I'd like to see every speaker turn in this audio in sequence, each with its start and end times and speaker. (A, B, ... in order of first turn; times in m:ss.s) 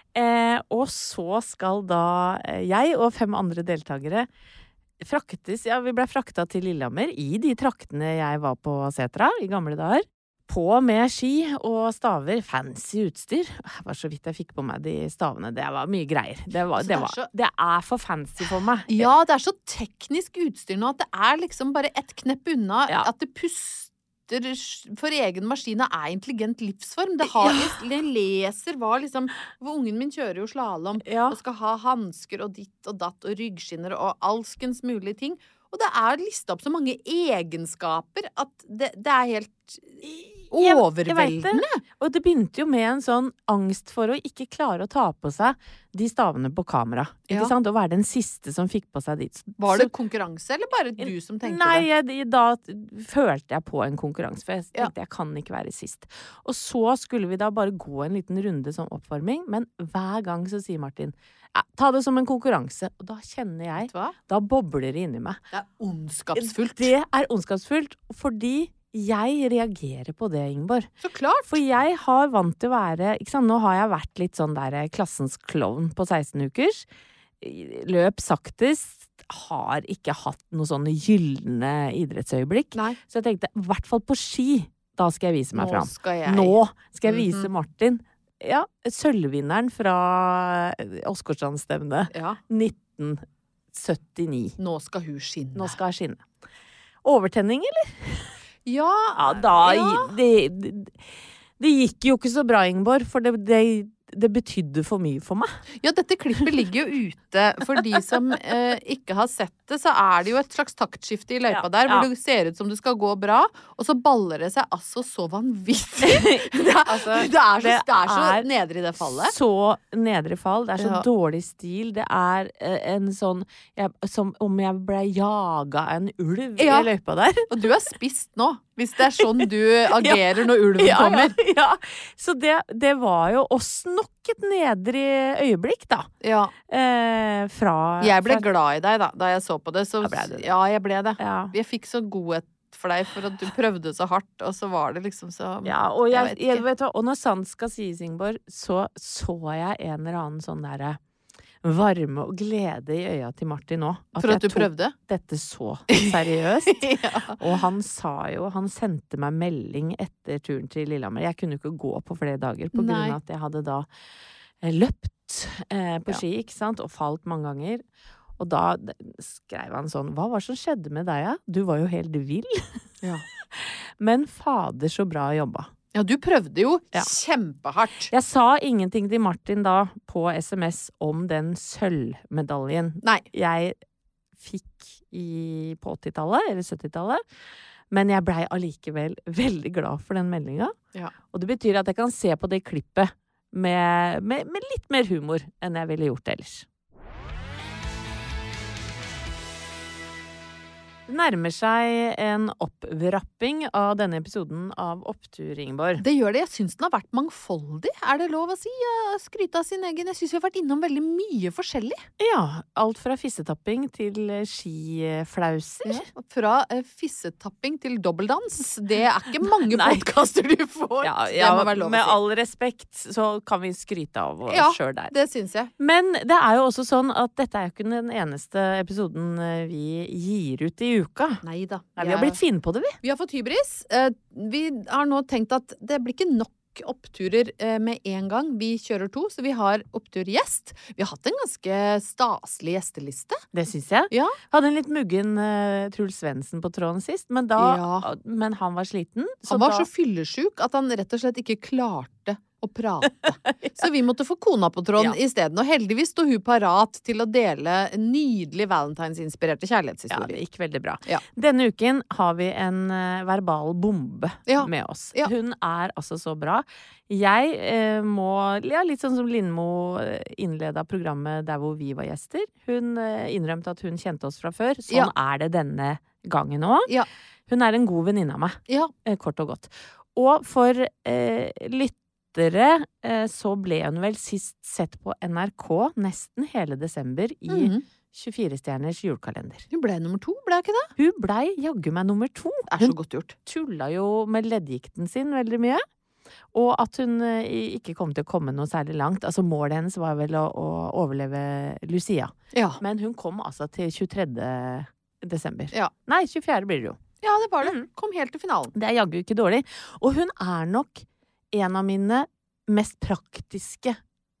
0:00.1-0:04.3 A
0:05.0-0:19.1 A
0:16.8-0:17.3 B
0:18.9-0:41.8 B
0:27.4-0:27.7 A
0:31.0-0:31.4 A
0:40.0-0:49.9 A
0:49.6-0:51.8 B
0:51.0-1:05.4 A
1:03.8-1:04.1 B
1:05.5-1:06.9 B
1:06.3-1:10.9 A
1:11.0-1:11.6 B
1:11.5-1:16.8 A
1:17.4-1:34.6 A
1:25.5-1:27.5 B
1:32.1-1:32.4 B
1:34.6-1:35.7 B
1:35.5-1:36.2 A
1:37.0-1:38.3 A
1:38.6-1:40.1 B
1:39.2-1:45.6 A
1:45.8-1:59.3 B
1:51.4-1:52.1 A
1:56.0-1:58.5 A
1:59.0-2:07.6 A
2:00.8-2:01.0 B
2:06.6-2:06.9 B
2:07.5-2:11.3 B
2:09.3-2:16.1 A
2:16.2-2:16.5 B
2:16.7-2:18.5 A
2:18.0-2:26.6 B
2:20.0-2:20.5 A
2:21.2-2:21.5 A
2:25.6-2:31.0 A
2:31.6-2:43.9 A
2:34.2-2:34.9 B
2:36.9-2:37.4 B
2:42.7-2:43.2 B
2:44.6-2:47.8 A
2:48.4-2:52.8 A
2:53.5-2:55.7 A
2:55.9-2:58.1 B
2:58.1-3:03.8 A
3:04.4-3:07.2 A
3:07.9-3:10.8 A
3:11.3-3:16.6 A
3:21.1-3:26.0 A
3:26.0-3:32.0 B
3:32.2-3:36.1 A
3:35.8-3:42.2 B
3:39.7-3:40.1 A
3:41.0-3:45.1 A
3:44.5-3:45.7 B
3:45.8-3:51.4 A
3:51.4-3:52.4 B
3:52.0-3:53.0 A
3:53.0-4:03.4 B
4:03.5-4:09.9 A
4:04.1-4:04.4 B
4:07.6-4:08.1 B
4:09.5-4:20.4 B
4:20.1-4:36.9 A
4:24.5-4:25.3 B
4:37.5-4:49.6 A
4:47.5-4:47.8 B
4:49.7-4:50.9 B
4:51.0-4:55.8 A
4:52.7-4:53.4 B
4:56.5-5:07.0 A
5:02.5-5:02.8 B
5:07.2-5:08.7 B
5:08.7-5:14.0 A